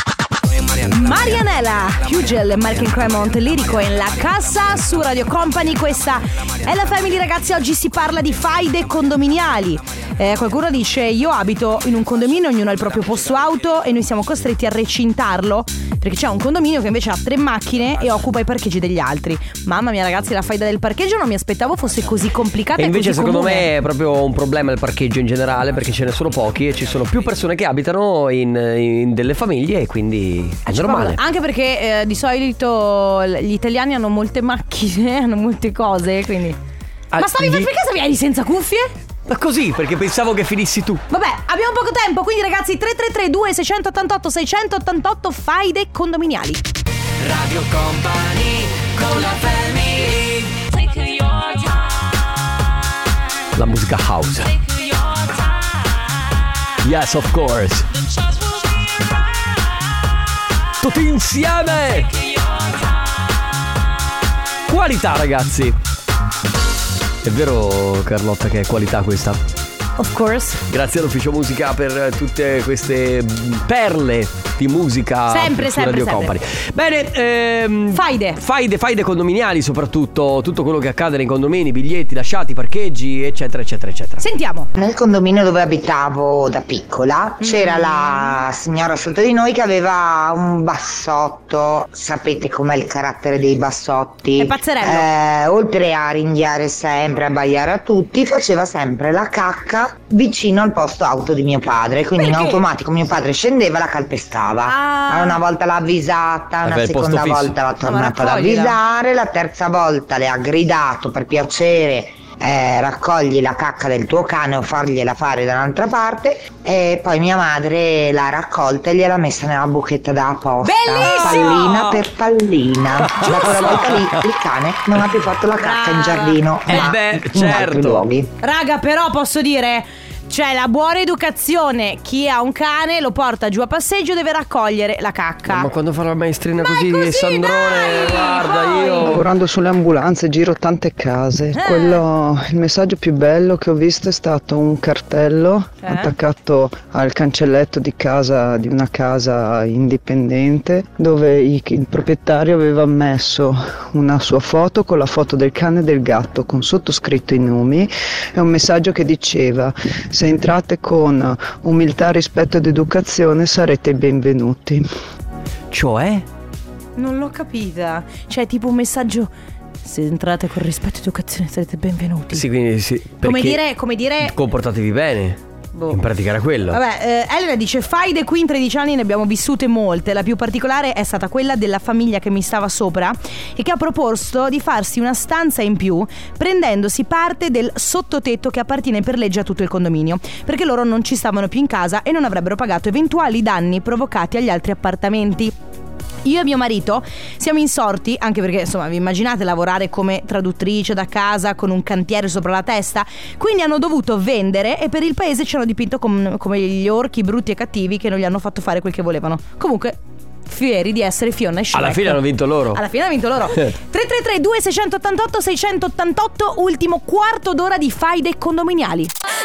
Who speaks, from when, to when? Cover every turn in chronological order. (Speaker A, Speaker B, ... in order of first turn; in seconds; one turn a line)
Speaker A: 0.8-23.7
Speaker B: 22.8-31.2
Speaker A: 30.7-36.6
Speaker B: 37.1-37.7
Speaker A: 37.2-38.9
Speaker B: 39.3-41.0
Speaker A: 41.1-46.6
Speaker C: 47.2-52.1
Speaker B: 53.6-54.5
Speaker C: 54.6-55.5
Speaker B: 56.8-57.9
Speaker B: 60.8-62.1
Speaker C: 62.2-62.8
Speaker B: 64.7-65.8
Speaker B: 67.2-69.4
Speaker A: 70.0-70.6
Speaker B: 70.7-84.2
Speaker A: 75.3-76.3
Speaker A: 77.9-78.4
Speaker A: 84.2-84.7
Speaker D: 84.8-128.3
Speaker A: 87.4-88.4
Speaker A: 94.4-95.1
Speaker A: 102.2-102.6
Speaker A: 104.7-105.4
Speaker B: 106.6-107.6
Speaker A: 107.8-108.8
Speaker A: 120.6-121.9
Speaker B: 121.0-122.0
Speaker B: 123.0-124.2
Speaker A: 123.2-124.1
Speaker A: 125.6-126.9
Speaker B: 126.7-128.1
Speaker A: 128.4-135.7
Speaker B: 135.5-139.2
Speaker A: 136.6-139.2
Speaker E: 139.0-164.8
Speaker A: 141.5-142.0
Speaker A: 145.8-146.1
Speaker B: 165.7-166.3
Speaker A: 167.0-169.3
Speaker A: 169.8-172.5
Speaker B: 172.3-173.6
Speaker A: 173.2-174.3
Speaker B: 174.2-175.4
Speaker A: 175.8-176.0
Speaker B: 175.9-176.8
Speaker A: 176.7-195.5
Speaker A: 196.2-219.1
Speaker B: 211.7-212.8
Speaker B: 213.5-213.7